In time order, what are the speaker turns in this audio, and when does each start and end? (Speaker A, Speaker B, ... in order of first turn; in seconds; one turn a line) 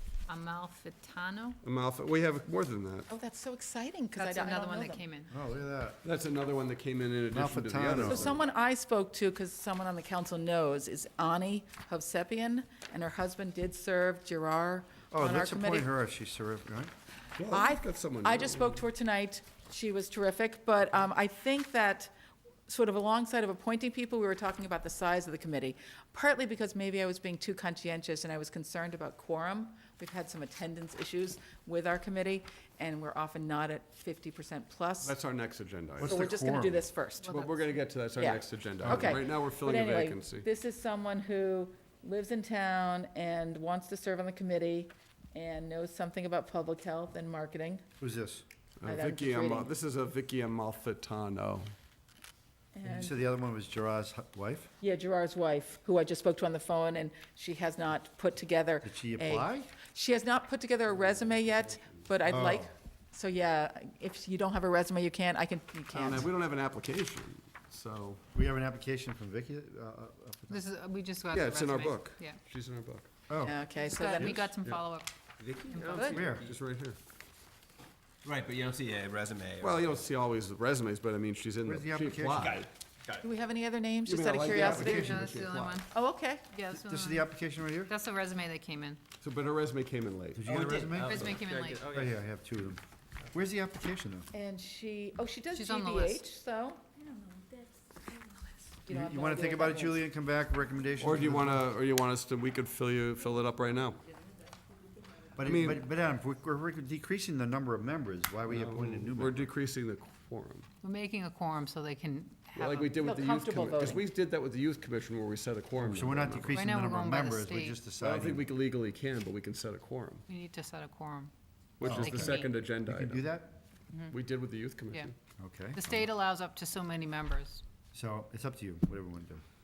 Speaker A: 0.3-1.6
Speaker B: 1.6-3.1
Speaker C: 3.1-5.0
Speaker A: 4.1-5.3
Speaker D: 5.3-6.0
Speaker B: 6.0-8.4
Speaker D: 7.3-8.4
Speaker C: 8.1-15.9
Speaker D: 15.1-16.9
Speaker B: 17.4-18.8
Speaker C: 17.5-22.1
Speaker C: 22.7-35.1
Speaker B: 35.0-36.2
Speaker D: 36.0-36.9
Speaker C: 36.0-37.4
Speaker A: 37.2-37.8
Speaker B: 37.3-40.5
Speaker C: 38.2-47.8
Speaker D: 38.8-39.2
Speaker D: 48.0-48.4
Speaker B: 48.8-51.7
Speaker C: 48.8-49.7
Speaker C: 52.7-53.2
Speaker D: 52.8-54.7
Speaker C: 54.8-66.3
Speaker D: 58.8-59.7
Speaker B: 60.9-62.1
Speaker D: 62.3-62.7
Speaker B: 65.9-68.2
Speaker D: 68.3-70.6
Speaker A: 70.5-72.4
Speaker B: 71.3-73.1
Speaker D: 73.3-73.6
Speaker C: 73.4-74.4
Speaker A: 73.7-75.1
Speaker B: 74.2-74.8
Speaker E: 75.4-76.6
Speaker A: 75.7-76.1
Speaker C: 75.9-76.2
Speaker D: 76.1-76.4
Speaker B: 76.2-77.0
Speaker E: 78.2-80.0
Speaker B: 79.6-82.7
Speaker D: 81.7-82.5
Speaker E: 82.4-83.2
Speaker C: 83.2-85.1
Speaker B: 84.0-85.8
Speaker D: 84.4-85.4
Speaker A: 84.5-85.9
Speaker C: 85.9-86.5
Speaker A: 86.4-87.3
Speaker D: 86.8-87.9
Speaker A: 87.8-89.0
Speaker B: 89.2-90.7
Speaker D: 90.3-92.8
Speaker E: 90.5-92.2
Speaker A: 91.0-91.8
Speaker D: 93.3-94.3
Speaker C: 94.3-97.0
Speaker A: 95.5-96.2
Speaker C: 98.8-100.0
Speaker D: 98.9-101.6
Speaker B: 101.0-104.0
Speaker D: 105.3-109.5
Speaker B: 105.4-105.8
Speaker B: 108.5-110.7
Speaker A: 110.8-113.0
Speaker B: 112.5-116.6
Speaker C: 113.0-114.0
Speaker D: 115.8-118.5
Speaker A: 116.5-117.8
Speaker B: 118.0-120.2
Speaker A: 120.3-121.3
Speaker B: 121.8-123.3
Speaker D: 121.8-123.5
Speaker A: 121.8-122.5
Speaker A: 123.9-124.2
Speaker B: 124.1-125.1
Speaker D: 125.4-126.1
Speaker A: 125.7-127.6
Speaker D: 127.9-129.4